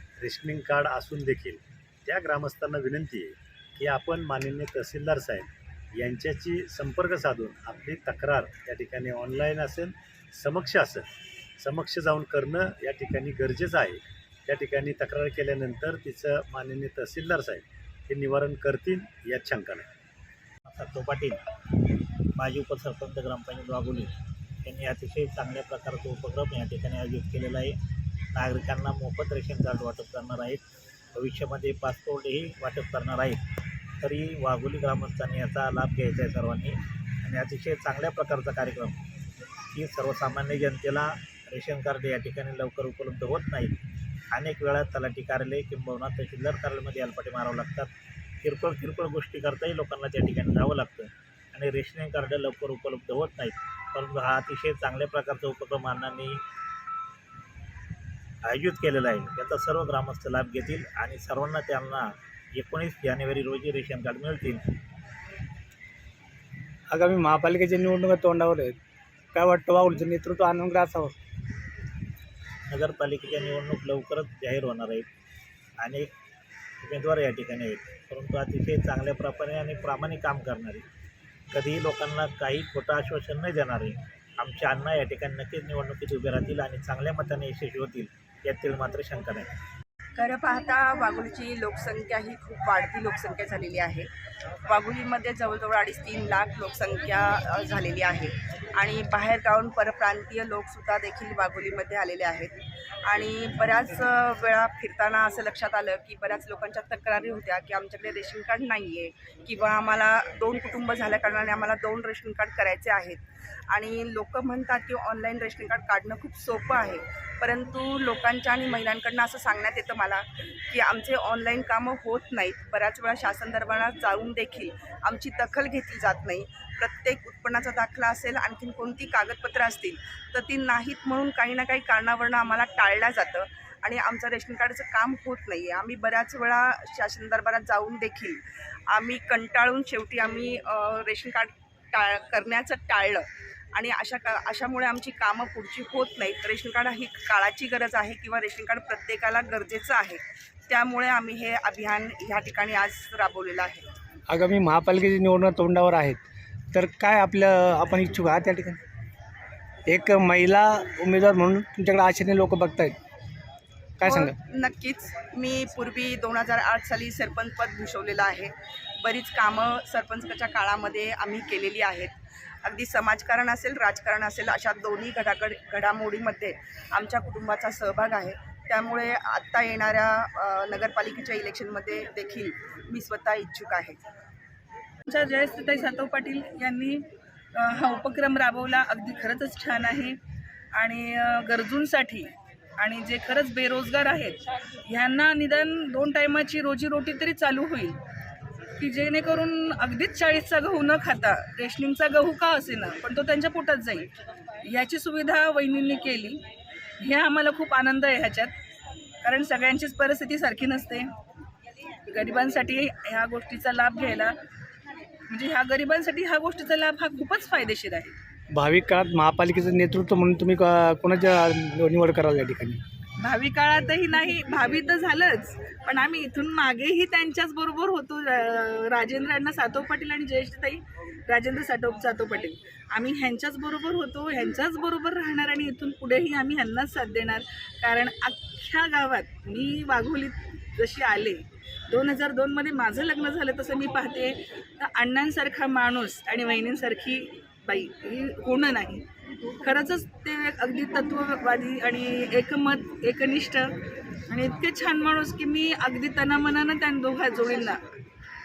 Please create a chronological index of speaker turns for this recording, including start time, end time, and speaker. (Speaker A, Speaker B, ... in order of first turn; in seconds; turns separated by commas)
Speaker A: 0.2-11.1, Speaker A: 11.6-19.9, Speaker B: 20.7-21.4, Speaker B: 22.3-24.1, Speaker B: 24.6-27.8, Speaker B: 28.3-30.6, Speaker B: 31.1-33.4, Speaker B: 34.0-39.0, Speaker B: 39.7-43.8, Speaker B: 44.3-47.9, Speaker B: 48.4-56.4, Speaker B: 58.5-64.7, Speaker C: 66.9-68.8, Speaker C: 69.3-71.1, Speaker B: 72.7-75.1, Speaker B: 75.8-76.1, Speaker B: 76.8-80.9, Speaker B: 81.5-89.5, Speaker D: 90.2-94.1, Speaker D: 94.7-153.8, Speaker C: 154.3-156.2, Speaker C: 156.7-158.8, Speaker C: 159.9-163.0, Speaker C: 164.0-164.3, Speaker D: 164.0-184.0, Speaker E: 185.1-190.2, Speaker E: 190.7-198.0, Speaker E: 198.8-204.1, Speaker E: 204.7-206.4, Speaker E: 207.0-208.5, Speaker E: 209.2-211.1, Speaker E: 212.1-214.3, Speaker E: 215.3-218.2, Speaker C: 218.5-222.8, Speaker E: 223.2-249.1, Speaker E: 249.6-253.8, Speaker E: 254.3-257.9